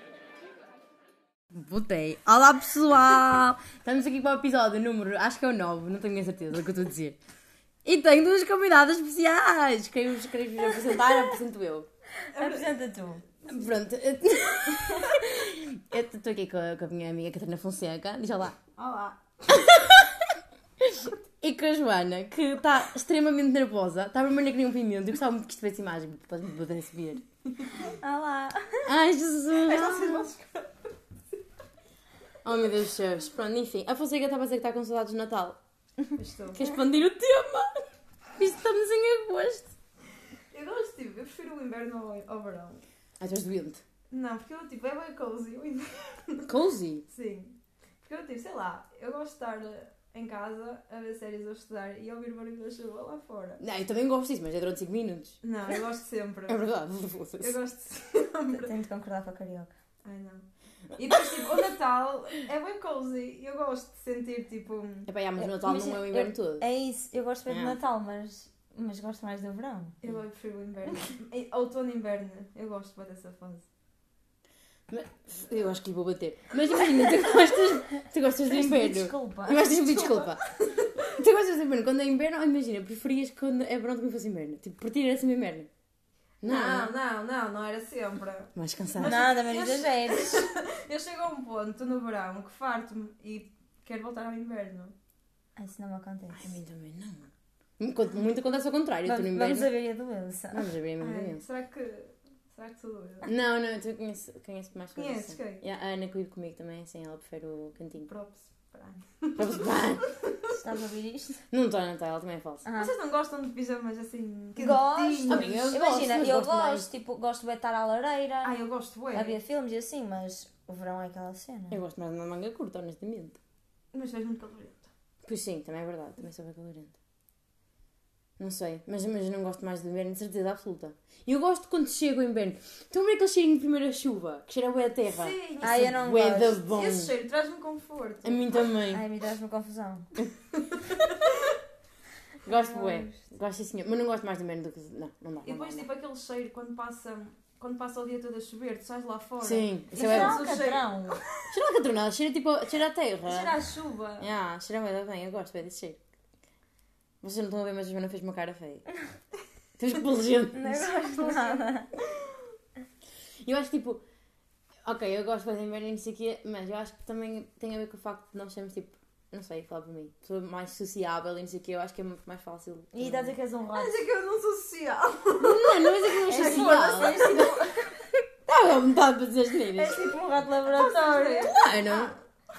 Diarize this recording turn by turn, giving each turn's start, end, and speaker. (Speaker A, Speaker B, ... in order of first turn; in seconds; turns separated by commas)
Speaker A: 1.5-7.2, Speaker A: 7.8-11.9, Speaker B: 12.3-12.8, Speaker C: 12.3-13.2, Speaker A: 13.4-18.6, Speaker B: 18.8-19.6, Speaker A: 19.5-27.2, Speaker C: 27.7-28.9, Speaker A: 28.8-30.3, Speaker B: 29.6-30.9, Speaker A: 32.4-35.6, Speaker B: 36.1-36.6, Speaker A: 36.5-39.7, Speaker B: 40.5-42.8, Speaker A: 43.2-43.8, Speaker B: 44.1-46.5, Speaker A: 46.5-47.0, Speaker B: 47.1-53.6, Speaker A: 53.6-55.4, Speaker B: 55.4-56.7, Speaker A: 56.5-57.6, Speaker B: 57.4-58.7, Speaker C: 58.5-59.7, Speaker B: 60.0-65.1, Speaker A: 65.0-66.6, Speaker C: 65.4-69.9, Speaker A: 67.5-67.8, Speaker B: 70.0-73.6, Speaker A: 74.9-80.4, Speaker C: 78.5-79.7, Speaker B: 79.8-81.1, Speaker A: 81.0-85.7, Speaker A: 86.4-86.9, Speaker B: 86.4-94.9, Speaker A: 88.5-89.2, Speaker C: 89.0-90.5, Speaker C: 95.5-96.5, Speaker A: 96.3-99.7, Speaker C: 99.0-100.7, Speaker A: 100.5-101.4, Speaker B: 101.0-103.3, Speaker A: 103.2-108.1, Speaker B: 104.9-105.6, Speaker B: 108.0-110.5, Speaker A: 109.4-110.1, Speaker C: 110.6-111.4, Speaker A: 111.5-112.6, Speaker C: 112.6-112.9, Speaker B: 112.7-115.7, Speaker C: 114.5-118.5, Speaker A: 115.3-116.8, Speaker B: 118.4-119.4, Speaker C: 119.1-121.8, Speaker A: 121.7-123.4, Speaker B: 123.9-124.9, Speaker A: 125.2-126.9, Speaker A: 128.4-137.1, Speaker B: 135.1-138.4, Speaker C: 135.6-136.6, Speaker A: 138.2-139.0, Speaker C: 138.9-140.1, Speaker A: 142.4-145.8, Speaker B: 142.5-143.1, Speaker B: 145.4-151.5, Speaker A: 149.4-150.4, Speaker C: 149.9-151.2, Speaker A: 151.5-153.5, Speaker B: 153.2-154.3, Speaker A: 154.2-156.0, Speaker A: 157.2-158.8, Speaker A: 159.8-160.9, Speaker C: 160.5-161.9, Speaker B: 161.1-161.7, Speaker A: 163.4-164.0, Speaker A: 164.8-173.3, Speaker C: 172.9-173.9, Speaker B: 173.8-177.6, Speaker A: 175.4-177.5, Speaker C: 176.3-177.9, Speaker A: 178.1-180.1, Speaker C: 179.7-181.5, Speaker B: 180.6-182.2, Speaker A: 181.4-182.1